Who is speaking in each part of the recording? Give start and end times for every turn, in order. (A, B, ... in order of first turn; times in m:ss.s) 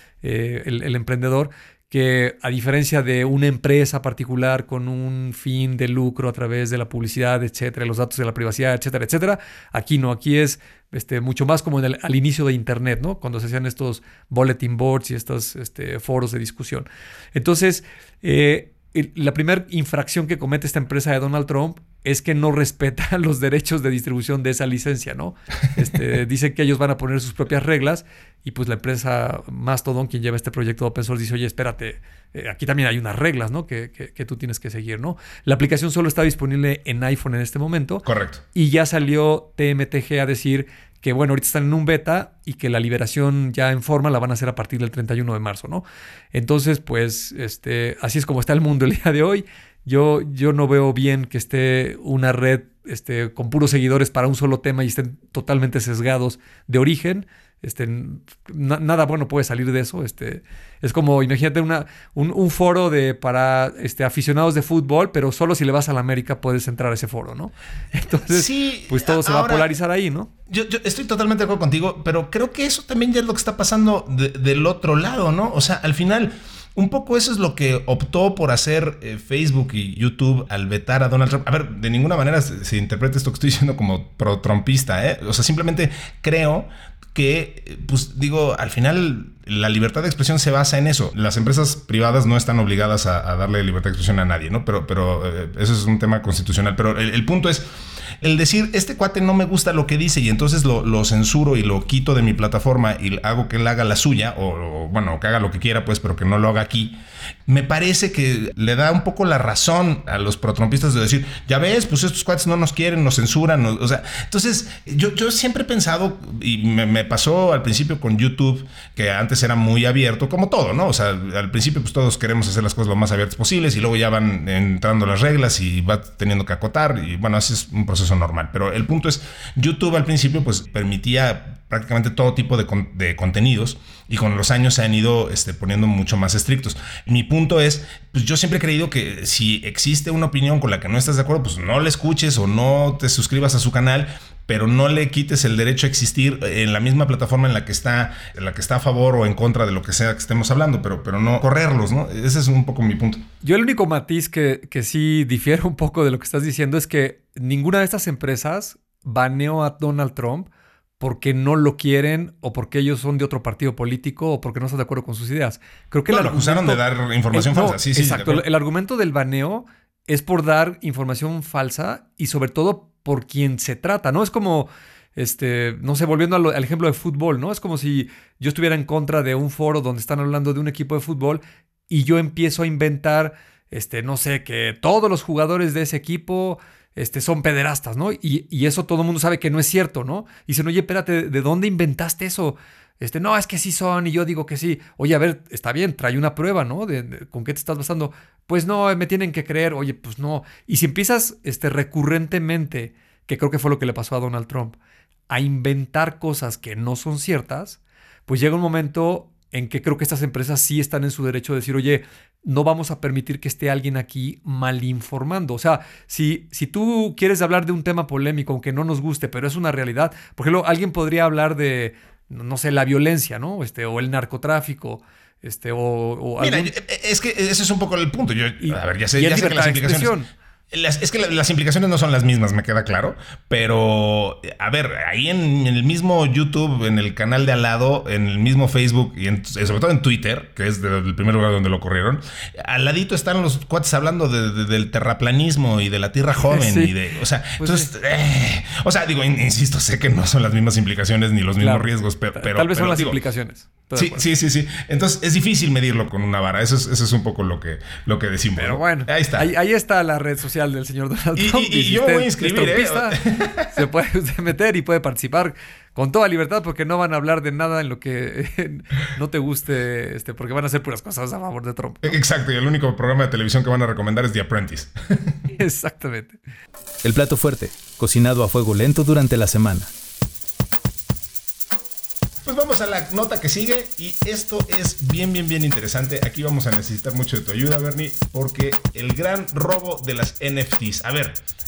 0:00.2-1:10.3 A
0:38.0-0:38.4 B
1:08.3-1:09.7 B
1:10.5-1:37.6 B
1:38.2-1:47.0 B
1:47.5-2:33.2 B
2:33.4-2:40.5 A
2:41.0-3:24.8 A
2:46.1-2:48.4 B
3:25.3-3:46.7 A
3:46.4-3:50.2 B
3:48.6-3:50.3 A
3:50.7-4:13.2 B
4:06.5-4:06.9 A
4:07.6-4:07.9 A
4:11.6-4:14.3 A
4:14.0-4:19.5 B
4:18.6-4:23.2 A
4:21.4-4:23.8 B
4:23.7-4:32.2 A
4:32.0-4:35.4 B
4:35.5-4:36.4 A
4:37.0-4:39.9 C
4:42.4-4:51.4 B